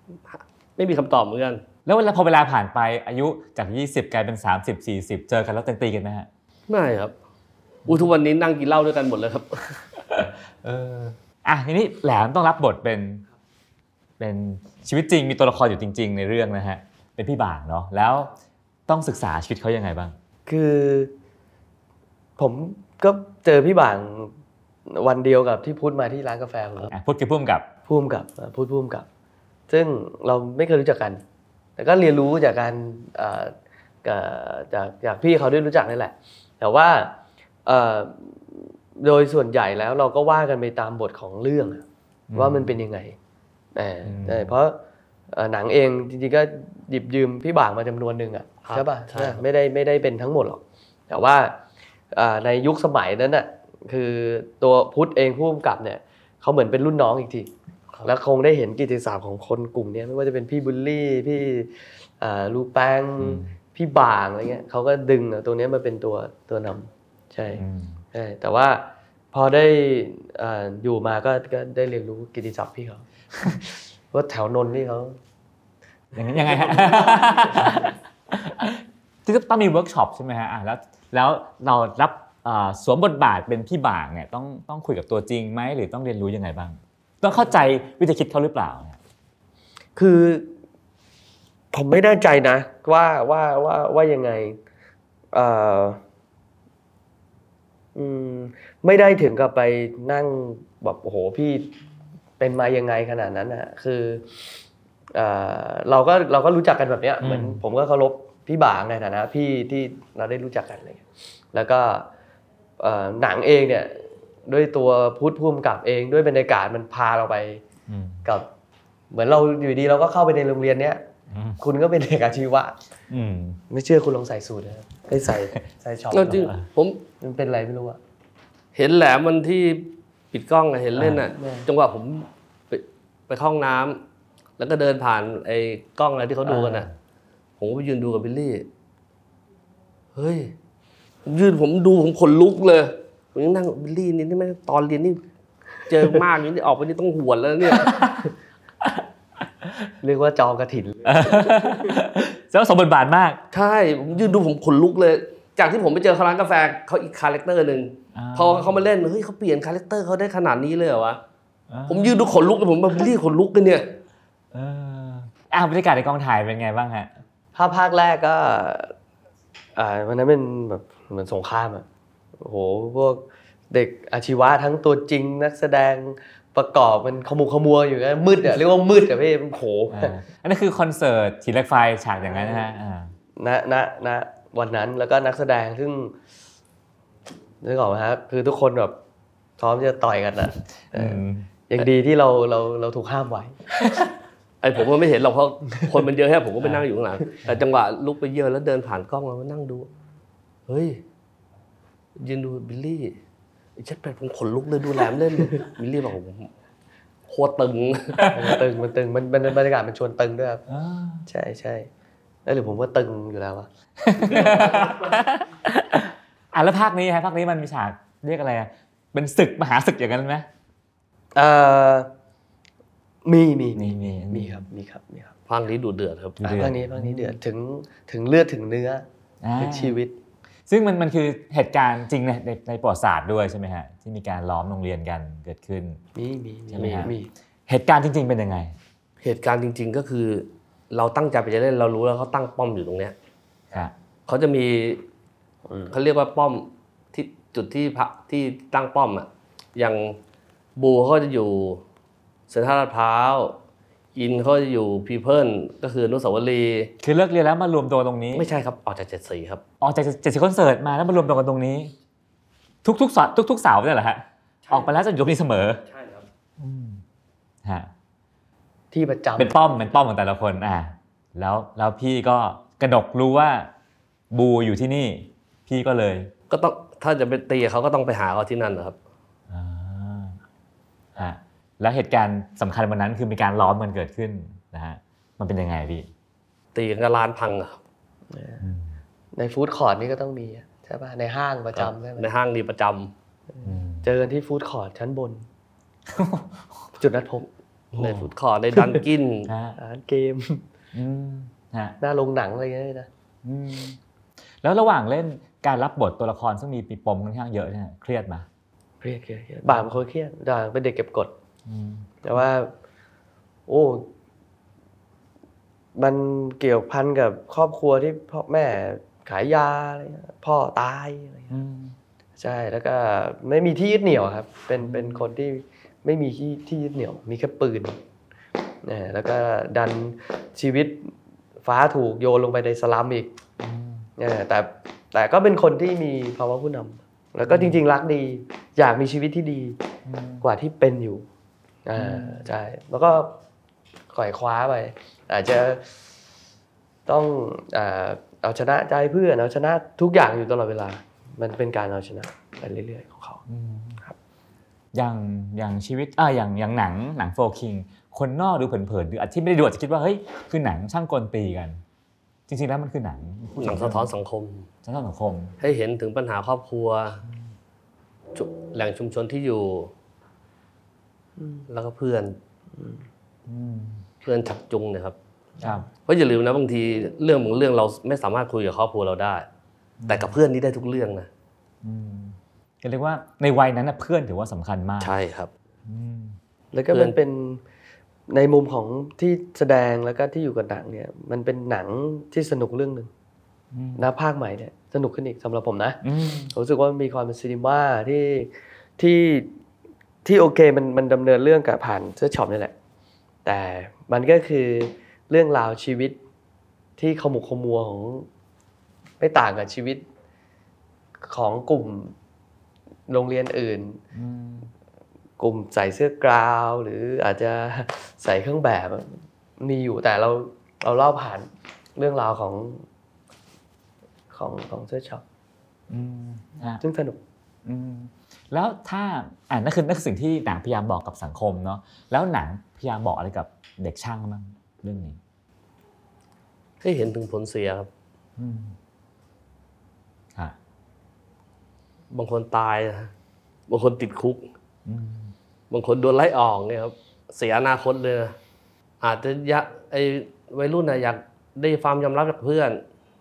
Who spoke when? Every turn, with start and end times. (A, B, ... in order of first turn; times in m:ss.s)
0:00.3-0:01.6 A
0:01.8-0:06.3 B
0:06.7-0:07.2 A
0:07.9-0:09.8 A
0:10.1-0:13.3 B
0:14.2-0:18.3 B
0:18.9-0:20.2 B
0:20.5-0:21.1 C
0:22.4-0:24.3 C
0:24.9-0:26.9 C
0:26.9-0:27.7 B
0:27.9-0:29.1 C
0:29.7-0:31.2 C
0:31.8-0:43.2 C
0:42.3-0:42.8 B
0:43.8-0:51.6 C
0:44.0-0:44.6 B
0:48.7-0:49.4 A
0:52.1-0:57.5 C
0:58.0-1:15.2 C
1:03.2-1:03.5 B
1:07.6-1:08.0 B
1:16.2-1:29.0 B
1:16.2-1:17.9 C
1:30.0-1:30.5 C
1:31.7-1:34.6 C
1:35.3-1:36.0 C
1:38.0-1:41.7 C
1:42.4-1:44.5 C
1:45.1-1:52.1 C
1:47.2-1:47.6 B
1:52.8-1:57.6 C
1:57.9-1:58.2 B
1:59.1-2:01.0 C
2:01.3-2:01.6 B
2:01.6-2:02.8 C
2:03.1-2:03.6 B
2:03.7-2:06.5 C
2:05.3-2:05.6 B
2:06.1-2:07.0 A
2:06.3-2:06.6 B
2:07.2-2:08.0 C
2:08.8-2:14.0 A
2:11.3-2:11.7 C
2:14.6-2:16.9 A
2:16.5-2:16.8 C
2:17.6-2:18.7 A
2:20.2-2:20.5 A
2:21.2-2:25.2 A
2:25.8-2:28.2 A
2:27.8-2:28.2 B
2:30.0-2:31.8 C
2:31.0-2:33.4 B
2:33.5-2:41.2 A
2:38.2-2:38.8 B
2:41.7-2:42.2 B
2:41.9-2:43.9 A
2:44.5-2:47.1 B
2:47.6-2:48.9 C
2:49.8-2:51.9 C
2:52.4-3:00.2 C
2:59.9-3:03.1 B
3:02.3-3:02.6 C
3:03.4-3:06.2 C
3:07.6-3:09.0 C
3:09.6-3:13.6 C
3:10.9-3:11.5 B
3:14.6-3:19.9 A
3:20.7-3:21.0 A
3:22.2-3:23.2 A
3:23.8-3:26.5 A
3:27.3-3:28.3 A
3:28.3-3:30.6 C
3:30.7-3:31.3 B
3:31.3-3:31.9 C
3:32.5-3:33.7 C
3:34.0-3:40.5 B
3:41.4-3:42.1 C
3:43.2-3:45.3 C
3:43.8-3:44.6 B
3:45.5-3:46.6 A
3:46.4-3:47.4 B
3:46.4-3:49.0 C
3:49.4-3:50.0 B
3:49.6-3:50.2 C
3:50.7-3:56.0 B
3:56.2-3:57.3 C
3:56.7-3:57.1 B
3:57.7-3:58.8 B
3:59.2-4:03.2 A
4:04.3-4:05.0 A
4:05.7-4:05.9 C
4:05.9-4:10.2 A
4:10.8-4:11.8 A
4:12.5-4:13.6 A
4:14.2-4:16.9 A
4:17.0-4:18.5 B
4:18.3-4:19.6 A
4:19.8-4:21.9 B
4:22.8-4:25.8 B
4:25.8-4:26.2 A
4:26.6-4:27.0 B
4:27.6-4:27.9 B
4:28.9-4:29.6 C
4:29.4-4:33.7 B
4:34.3-4:36.3 B
4:36.5-4:39.0 A
4:39.5-4:40.4 B
4:41.2-4:46.1 B
4:46.7-4:47.8 A
4:48.3-4:48.6 C
4:48.6-4:49.0 B
4:49.4-4:52.3 C
4:51.8-4:53.1 A
4:53.6-4:55.5 C
4:53.6-4:54.1 B
4:56.1-4:56.8 B
4:57.0-4:57.5 C
4:57.9-4:59.5 A
4:58.0-4:58.3 B
4:59.5-4:59.8 B
4:59.8-5:00.6 C
5:00.9-5:02.0 B
5:02.0-5:03.1 C
5:03.4-5:04.0 B
5:04.6-5:08.5 B
5:09.0-5:11.3 C
5:11.7-5:12.4 B
5:12.2-5:12.7 C
5:13.7-5:14.1 C
5:16.0-5:21.6 C
5:21.5-5:22.0 B
5:22.4-5:28.0 C
5:24.8-5:25.3 B
5:28.8-5:33.3 C
5:33.6-5:34.1 B
5:34.2-5:39.8 C
5:37.5-5:37.8 B
5:40.1-5:40.4 B
5:40.4-5:41.3 C
5:41.9-5:43.4 C
5:42.0-5:42.5 B
5:44.1-5:45.9 C
5:47.1-5:53.4 C
5:53.5-5:54.0 B
5:54.9-6:01.8 B
6:02.5-6:04.1 B
6:03.6-6:04.7 A
6:04.8-6:05.6 B
6:05.6-6:07.2 A
6:08.4-6:09.9 A
6:11.4-6:11.7 C
6:11.7-6:12.4 A
6:13.5-6:14.1 B
6:14.2-6:15.2 A
6:15.6-6:15.9 B
6:16.0-6:19.5 A
6:20.0-6:20.4 B
6:20.1-6:21.3 A
6:21.8-6:25.2 B
6:25.0-6:25.5 A
6:25.9-6:26.4 B
6:26.7-6:27.6 C
6:28.3-6:33.1 C
6:33.7-6:34.1 B
6:34.0-6:36.0 C
6:36.0-6:36.5 B
6:36.5-6:39.5 C
6:40.2-6:42.7 C
6:43.4-6:46.2 C
6:47.0-6:48.3 C
6:49.2-6:50.0 C
6:51.3-6:52.1 C
6:53.1-6:54.0 C
6:54.1-6:54.7 B
6:55.4-7:02.9 C
7:04.3-7:05.2 C
7:05.9-7:06.8 B
7:06.8-7:07.2 C
7:07.6-7:15.2 B
7:16.8-7:17.9 A
7:18.4-7:18.8 B
7:22.1-7:23.1 A
7:23.7-7:24.4 A
7:24.9-7:25.3 B
7:25.7-7:28.4 A
7:29.0-7:32.8 A